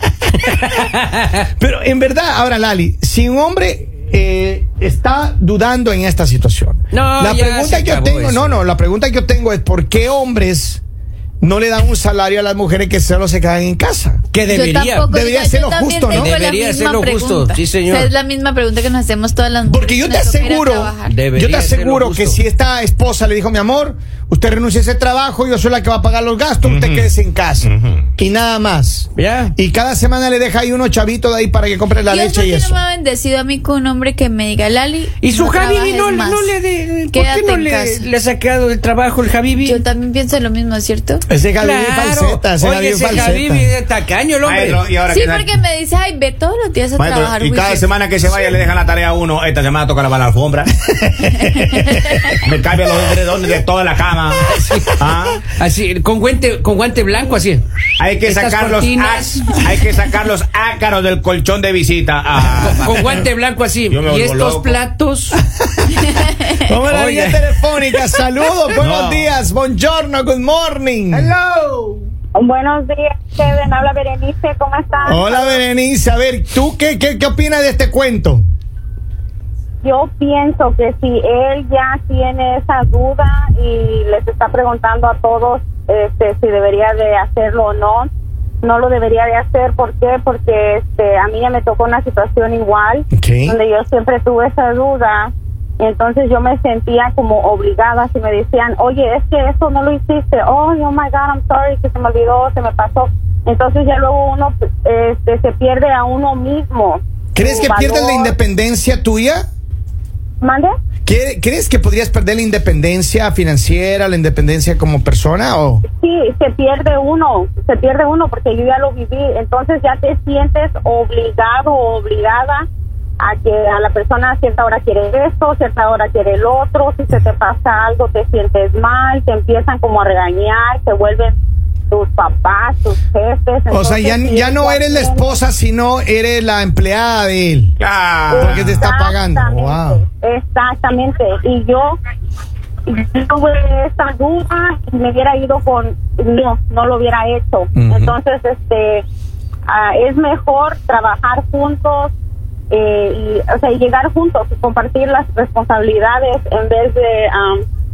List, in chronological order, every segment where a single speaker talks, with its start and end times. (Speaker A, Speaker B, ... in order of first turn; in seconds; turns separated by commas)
Speaker A: 0.4-1.4, Speaker B: 1.6-10.8, Speaker A: 6.9-8.6, Speaker B: 11.4-14.2, Speaker A: 14.3-15.1, Speaker C: 14.5-21.1, Speaker B: 15.1-16.3, Speaker A: 16.1-18.1, Speaker B: 19.6-32.8, Speaker A: 21.1-22.4, Speaker D: 26.6-28.1, Speaker A: 29.1-29.5, Speaker C: 32.0-36.5, Speaker A: 35.2-39.8, Speaker C: 37.1-38.0, Speaker C: 39.6-41.2, Speaker B: 41.3-43.7, Speaker A: 41.6-44.9, Speaker D: 44.4-45.5, Speaker C: 45.1-48.5, Speaker D: 47.0-55.4, Speaker A: 54.5-57.6, Speaker D: 58.0-63.2, Speaker A: 58.2-59.6, Speaker A: 62.4-65.4, Speaker D: 63.9-64.8, Speaker B: 65.8-71.3, Speaker C: 66.1-66.5, Speaker A: 66.9-68.0, Speaker D: 68.8-69.3, Speaker A: 71.1-72.0, Speaker E: 72.3-75.6, Speaker B: 75.0-78.4, Speaker E: 79.8-88.1, Speaker E: 88.6-108.3, Speaker B: 93.1-93.6, Speaker B: 107.3-109.5, Speaker E: 110.4-110.7, Speaker B: 111.0-115.8, Speaker E: 115.9-122.7, Speaker E: 123.2-131.4, Speaker E: 131.9-135.3, Speaker B: 133.7-137.7, Speaker D: 137.8-138.9, Speaker E: 138.3-142.0, Speaker B: 138.4-140.0, Speaker E: 142.9-149.0, Speaker B: 147.8-148.1, Speaker E: 149.7-152.1, Speaker E: 152.7-157.6